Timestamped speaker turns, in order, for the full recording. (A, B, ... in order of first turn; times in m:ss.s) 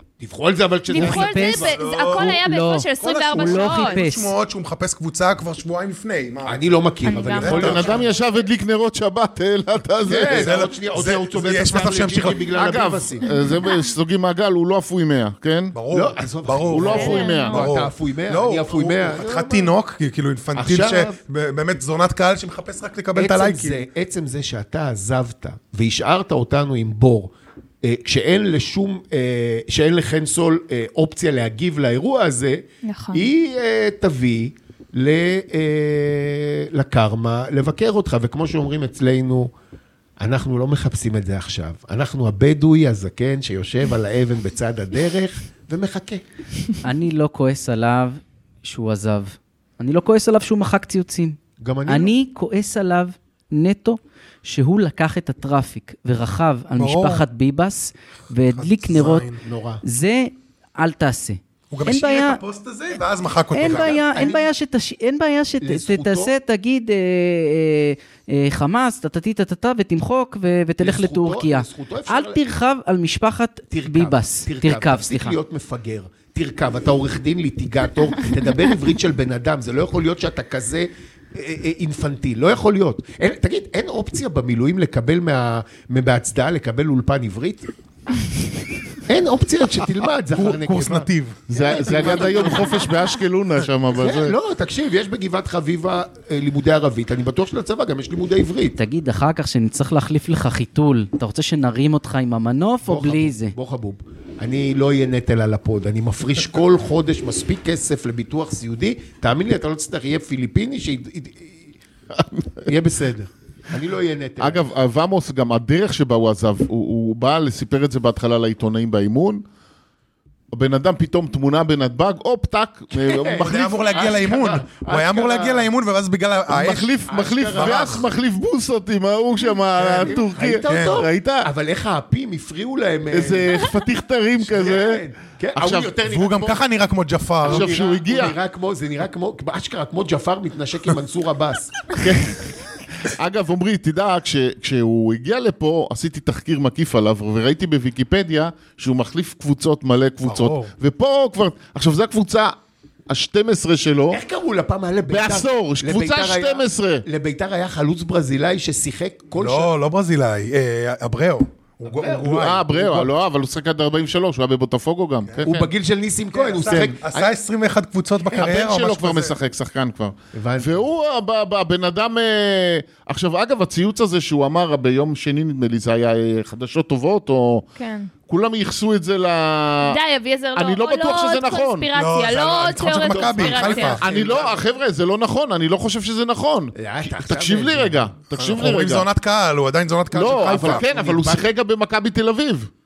0:00.2-0:01.8 A
0:00.9-0:04.0 B
0:00.9-0:04.3 C
0:01.5-0:02.4 D
0:03.0-0:06.6 D
0:06.4-0:08.0 A
0:07.0-0:08.2 B
0:07.4-0:07.9 D
0:07.5-0:10.6 E
0:10.1-0:13.3 A
0:10.3-0:12.5 D
0:12.5-0:15.7 E
0:13.3-0:13.8 B
0:15.7-0:23.8 D
0:15.9-0:19.7 A
0:16.7-0:17.7 E
0:16.9-0:17.7 B
0:20.5-0:21.2 A
0:23.1-0:27.3 A
0:27.8-0:39.5 A
0:32.8-0:33.2 B
0:40.2-0:46.2 A
0:46.8-0:59.3 C
0:51.6-0:52.1 A
0:56.8-0:57.2 D
0:58.4-0:59.4 D
0:59.3-0:59.8 A
0:59.8-1:02.4 C
1:01.7-1:04.0 D
1:03.5-1:15.4 C
1:03.6-1:04.5 A
1:05.6-1:06.3 A
1:10.8-1:12.4 A
1:13.7-1:27.7 A
1:29.0-1:32.9 A
1:30.3-1:31.4 D
1:31.5-1:34.3 E
1:34.0-1:38.8 A
1:38.8-1:43.5 C
1:42.8-1:51.7 A
1:52.6-1:54.6 A
1:54.4-1:59.4 E
2:00.5-2:04.0 E
2:02.9-2:05.7 A
2:03.4-2:06.9 D
2:06.5-2:11.5 E
2:07.0-2:08.1 A
2:07.5-2:08.0 D
2:09.8-2:10.1 D
2:10.0-2:13.7 A
2:10.7-2:11.0 D
2:13.1-2:15.0 E
2:14.4-2:16.6 A
2:15.5-2:15.9 E
2:16.0-2:17.7 D
2:17.4-2:21.9 A
2:17.4-2:18.4 E
2:22.0-2:32.5 E
2:30.2-2:30.7 D
2:33.1-2:34.2 E
2:34.1-2:39.7 A
2:35.1-2:37.0 E
2:39.4-2:42.7 D
2:41.8-2:43.1 A
2:42.2-2:45.6 E
2:45.4-2:47.3 A
2:46.3-2:49.3 D
2:48.3-2:57.6 E
2:50.3-2:50.8 A
2:57.8-2:58.1 B
2:58.3-3:00.0 E
2:59.8-3:04.0 B
3:00.5-3:01.9 E
3:01.9-3:04.0 D
3:02.4-3:04.6 A
3:03.8-3:09.0 E
3:06.7-3:08.1 A
3:08.4-3:10.8 D
3:10.1-3:12.7 E
3:10.2-3:11.5 A